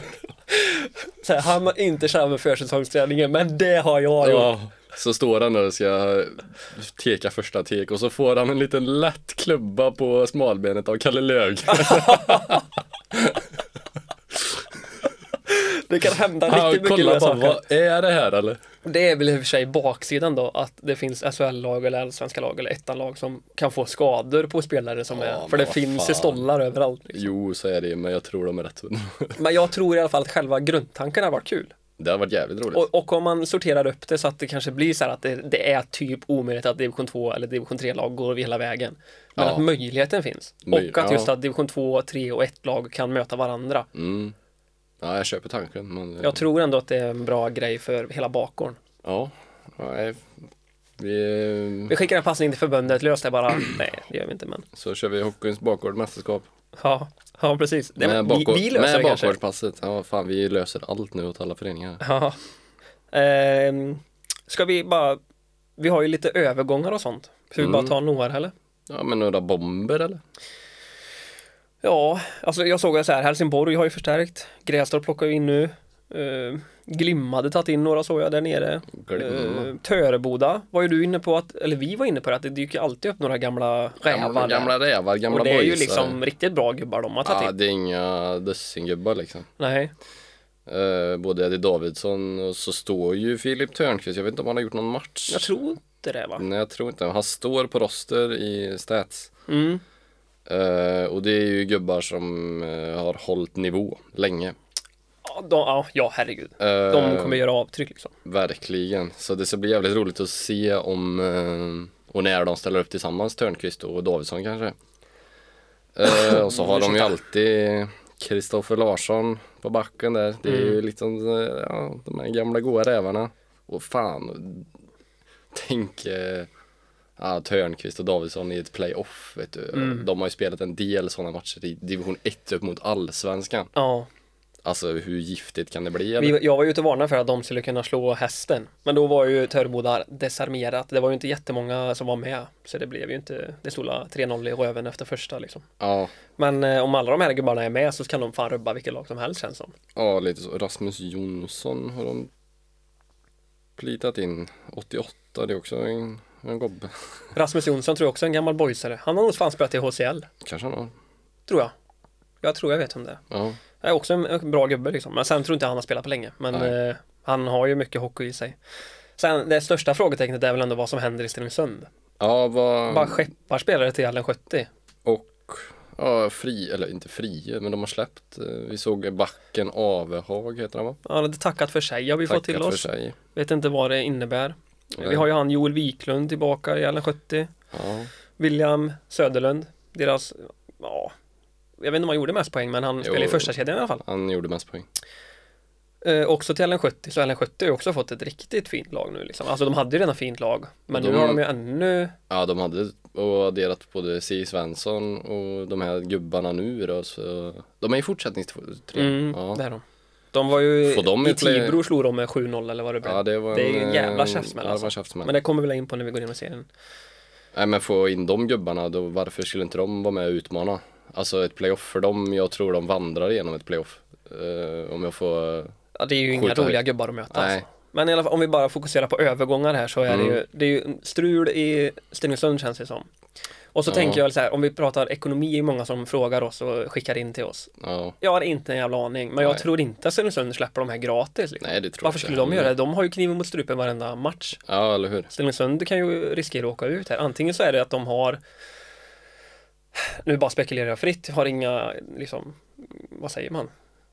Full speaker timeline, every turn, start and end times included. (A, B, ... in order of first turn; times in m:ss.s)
0:00.5-0:04.5 A
0:04.2-0:13.5 B
0:11.7-0:12.6 A
0:15.4-0:17.6 A
0:16.4-0:18.6 B
0:18.8-0:27.3 A
0:25.1-0:26.4 B
0:27.1-0:29.4 B
0:29.4-0:31.7 A
0:32.0-0:32.8 B
0:32.7-0:43.9 A
0:39.4-0:39.6 B
0:40.6-0:41.3 B
0:43.9-0:44.3 B
0:45.0-0:46.4 B
0:46.2-0:48.8 A
0:49.0-0:50.3 B
0:51.0-0:51.9 B
0:51.9-0:54.6 A
0:54.7-0:56.5 B
0:56.8-0:59.4 A
0:58.0-1:02.0 B
1:02.0-1:02.4 A
1:03.1-1:05.2 A
1:05.8-1:08.5 A
1:07.6-1:08.0 B
1:08.9-1:10.2 B
1:11.8-1:24.7 A
1:18.9-1:19.7 B
1:24.0-1:26.2 B
1:25.3-1:27.5 A
1:27.2-1:29.5 B
1:29.6-1:29.9 A
1:30.7-1:35.5 B
1:35.3-1:36.4 A
1:36.4-1:39.3 B
1:39.5-1:39.8 A
1:40.5-1:44.5 B
1:45.2-1:48.1 A
1:46.6-1:47.4 B
1:48.2-1:54.8 B
1:55.9-2:04.7 B
1:56.0-1:57.1 A
2:00.4-2:00.8 A
2:05.5-2:06.5 B
2:07.2-2:13.7 B
2:09.7-2:10.0 A
2:13.7-2:14.1 A
2:14.6-2:16.4 B
2:16.2-2:25.6 A
2:25.8-2:26.1 B
2:26.4-2:29.7 A
2:29.9-2:32.3 B
2:33.8-2:36.9 B
2:37.3-2:40.3 A
2:40.4-2:40.9 B
2:41.5-2:41.7 A
2:42.4-2:43.2 A
2:43.3-2:43.6 B
2:43.8-2:48.6 A
2:49.2-2:51.9 A
2:52.2-2:53.2 B
2:52.9-2:54.7 A
2:55.0-3:01.0 B
3:01.0-3:07.5 A
3:02.2-3:03.2 B
3:05.0-3:05.2 B
3:07.7-3:08.1 B
3:08.4-3:11.1 A
3:11.8-3:14.0 A
3:13.0-3:14.9 B
3:16.0-3:22.1 A
3:20.9-3:21.4 B
3:22.3-3:29.6 B
3:29.0-3:36.7 A
3:30.8-3:31.8 B
3:33.0-3:35.3 B
3:37.5-3:45.7 B
3:45.9-3:53.1 A
3:46.3-3:46.8 B
3:47.3-3:47.6 B
3:50.1-3:50.4 B
3:53.7-4:04.6 A
3:53.9-3:54.2 B
3:57.8-3:58.2 B
3:59.4-3:59.6 B
4:01.6-4:02.7 B
4:04.6-4:05.3 B
4:05.3-4:08.4 A
4:09.9-4:13.7 A